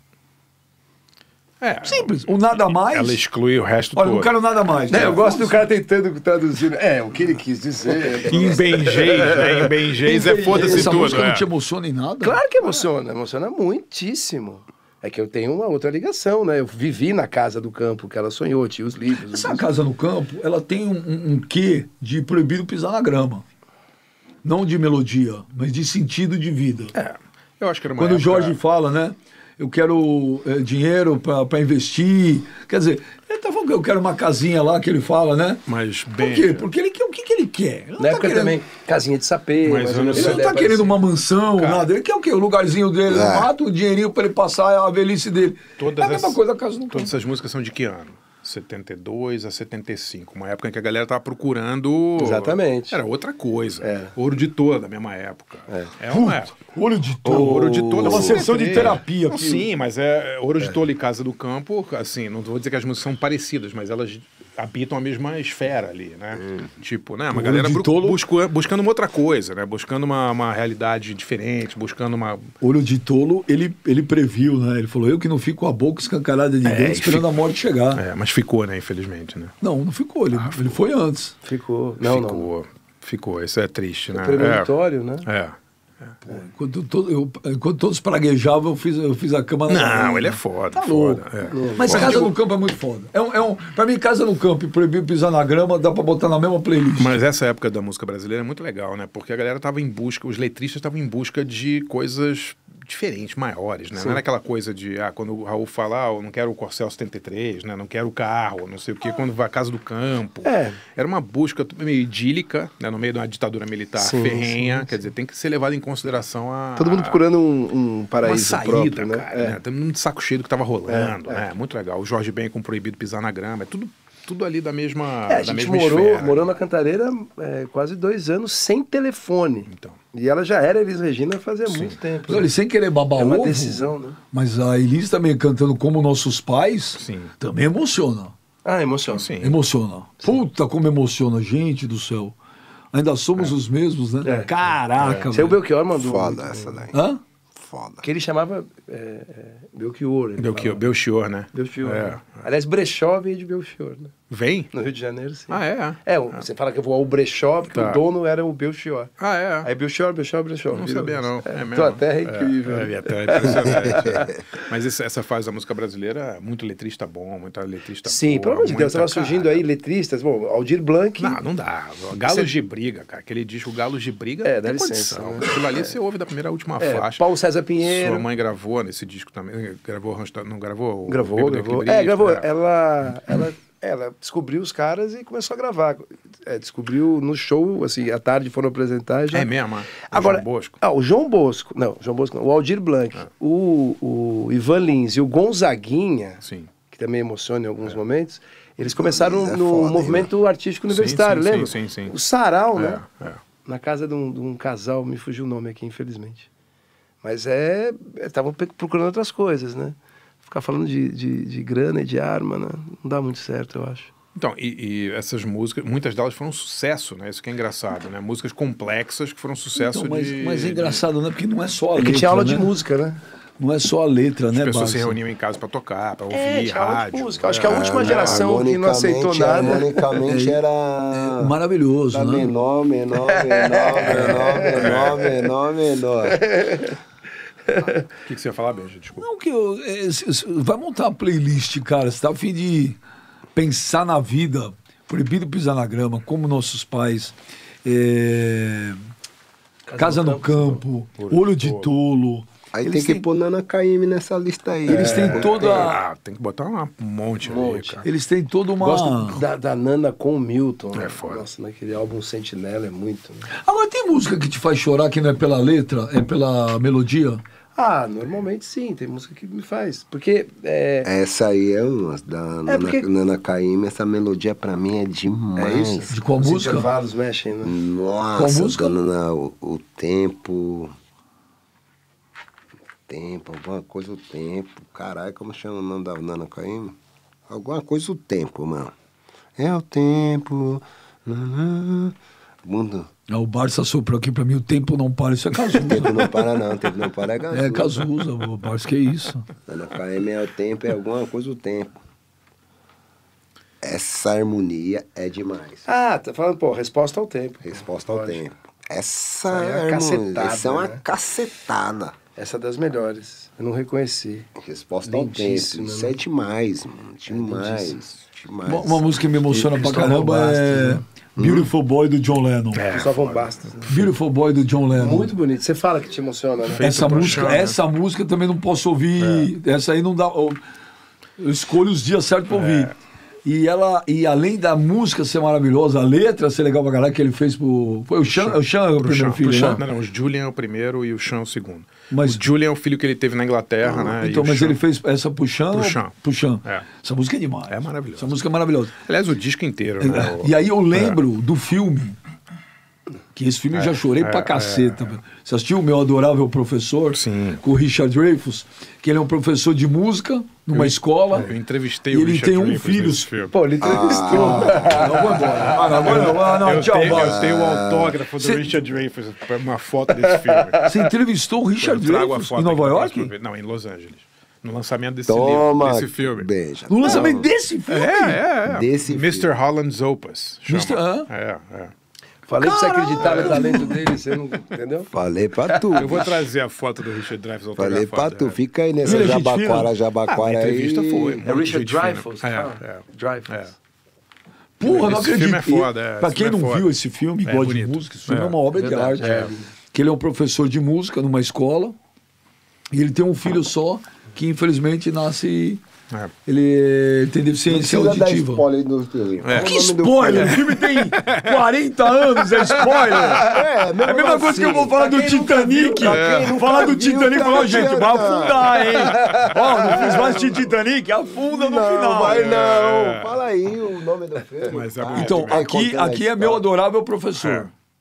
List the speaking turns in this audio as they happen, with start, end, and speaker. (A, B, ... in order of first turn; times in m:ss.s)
0:01.6-0:02.3 A
0:01.8-0:03.2 B
0:02.9-0:04.3 A
0:03.9-0:05.5 B
0:04.9-0:11.3 C
0:08.2-0:11.5 A
0:10.0-0:12.4 B
0:12.2-0:19.6 C
0:19.3-0:23.4 B
0:24.4-0:26.9 B
0:26.9-0:28.6 A
0:28.0-0:38.6 B
0:35.6-0:36.6 A
0:38.0-0:41.0 C
0:39.6-0:40.5 A
0:40.1-0:47.1 B
0:41.6-0:41.9 A
0:43.1-0:43.5 D
0:45.8-0:56.6 A
0:52.2-0:53.0 C
0:53.8-0:54.1 C
0:56.1-0:59.6 B
0:57.2-0:59.6 C
0:57.2-1:12.5 A
1:07.3-1:08.2 B
1:12.6-1:18.0 B
1:16.6-1:17.3 A
1:17.9-1:19.6 A
1:19.6-1:21.3 B
1:20.3-1:20.7 A
1:21.4-1:22.5 C
1:22.0-1:24.7 A
1:24.1-1:25.2 C
1:25.2-1:26.2 A
1:26.3-1:31.2 B
1:29.7-1:32.3 A
1:31.5-1:32.3 C
1:31.6-1:32.1 D
1:31.8-1:37.2 B
1:37.0-1:57.2 A
1:50.4-1:50.8 C
1:54.0-1:54.9 C
1:56.8-1:59.6 C
1:58.2-2:06.6 A
2:00.9-2:01.4 C
2:05.3-2:12.5 C
2:09.7-2:10.0 A
2:11.7-2:12.0 A
2:12.3-2:18.3 B
2:13.2-2:14.2 C
2:17.0-2:17.3 A
2:18.6-2:19.3 C
2:19.1-2:19.6 A
2:19.4-2:22.3 B
2:22.9-2:25.6 B
2:24.2-2:24.5 C
2:24.9-2:25.3 A
2:25.3-2:26.8 C
2:25.9-2:27.0 D
2:26.9-2:27.2 B
2:27.6-2:28.0 D
2:28.0-2:30.8 C
2:30.4-2:32.4 A
2:31.5-2:34.1 C
2:34.3-2:34.7 A
2:34.7-2:39.1 C
2:35.5-2:36.4 A
2:37.7-2:38.0 A
2:39.2-2:39.7 A
2:39.6-2:44.3 C
2:40.7-2:49.6 A
2:48.0-2:51.4 C
2:51.2-2:57.3 A
2:52.2-2:52.5 C
2:54.4-2:55.9 C
2:56.8-2:58.2 C
2:57.8-3:02.4 A
3:01.1-3:09.5 C
3:09.3-3:10.8 A
3:10.1-3:23.0 C
3:16.4-3:16.7 A
3:18.8-3:20.3 D
3:20.9-3:22.1 A
3:22.7-3:23.4 A
3:23.6-3:26.5 C
3:27.2-3:34.1 C
3:34.3-3:41.0 A
3:39.8-3:42.7 B
3:42.0-3:43.2 C
3:43.6-3:45.2 B
3:44.5-3:48.4 A
3:46.3-3:50.2 C
3:47.5-3:51.5 D
3:50.3-3:50.6 B
3:51.1-3:52.5 B
3:52.1-3:56.4 D
3:53.2-3:55.5 C
3:54.7-3:55.2 A
3:56.3-3:57.0 C
3:57.7-3:58.0 C
3:58.2-3:59.3 A
3:59.2-4:03.0 B
4:03.5-4:09.0 B
4:09.9-4:10.8 C
4:10.0-4:13.2 B
4:11.2-4:11.9 A
4:12.7-4:15.7 D
4:14.9-4:15.9 C
4:14.9-4:16.0 B
4:15.7-4:18.0 A
4:17.4-4:18.1 C
4:18.0-4:19.4 B
4:18.8-4:23.4 C
4:20.9-4:21.4 A
4:23.6-4:27.4 B
4:27.8-4:31.1 C
4:31.0-4:36.1 D
4:32.7-4:33.0 C
4:35.6-4:37.7 C
4:36.1-4:36.9 B
4:37.6-4:40.9 D
4:38.3-4:39.0 B
4:43.1-4:47.0 D
4:47.5-4:48.9 D
4:49.6-4:53.1 D
4:53.3-4:56.3 B
4:55.7-4:58.0 D
4:57.5-4:59.4 B
4:59.7-5:02.0 D
5:03.8-5:05.8 D
5:05.8-5:08.4 C
5:07.6-5:12.2 D
5:09.5-5:11.0 C
5:12.4-5:14.5 C
5:14.6-5:19.0 D
5:15.0-5:16.1 C
5:17.3-5:18.0 C
5:18.6-5:22.8 B
5:19.5-5:21.0 C
5:21.4-5:21.7 D
5:22.7-5:23.5 A
5:22.9-5:24.1 C
5:23.9-5:25.3 B
5:25.0-5:27.4 C
5:26.6-5:27.8 A
5:26.8-5:30.6 B
5:29.2-5:29.5 A
5:31.4-5:32.9 B
5:32.5-5:32.9 A
5:33.4-5:39.8 B
5:38.3-5:44.8 A
5:42.1-5:42.5 B
5:44.2-5:48.9 B
5:45.7-5:46.1 A
5:47.7-5:48.3 A
5:49.0-5:51.2 A
5:50.0-5:52.2 B
5:53.3-6:01.5 B
5:53.7-5:55.0 A
5:57.1-5:57.6 A
6:00.7-6:03.5 A
6:02.1-6:03.5 B
6:03.5-6:06.3 C
6:03.8-6:05.0 D
6:04.1-6:07.5 B
6:05.9-6:10.9 A
6:07.1-6:08.2 D
6:08.4-6:08.7 B
6:10.1-6:11.0 C
6:10.8-6:13.3 B
6:11.8-6:16.5 A
6:15.3-6:17.5 D
6:16.9-6:18.4 B
6:17.9-6:21.9 A
6:18.6-6:19.5 D
6:20.7-6:21.3 B
6:22.4-6:25.1 C
6:22.6-6:24.0 B
6:23.2-6:23.7 A
6:25.1-6:26.4 D
6:25.7-6:26.3 C
6:25.9-6:28.6 A
6:27.8-6:31.4 D
6:29.0-6:29.9 B
6:30.3-6:33.7 A
6:31.4-6:33.7 C
6:34.8-6:41.9 B
6:34.8-6:36.9 A
6:37.4-6:38.6 A
6:38.7-6:39.7 C
6:39.2-6:39.5 A
6:42.9-6:45.8 B
6:46.4-6:48.6 B
6:47.7-6:50.8 D
6:49.4-6:50.6 A
6:49.5-7:02.5 B
6:51.2-6:51.5 A
6:53.0-6:55.0 D
6:54.5-6:56.6 C
6:55.7-6:59.1 D
6:56.1-6:56.5 A
6:59.0-6:59.5 A
6:59.4-7:00.4 C
7:01.3-7:06.6 D
7:02.2-7:03.4 A
7:04.7-7:05.7 A
7:05.1-7:07.7 B
7:07.4-7:07.7 A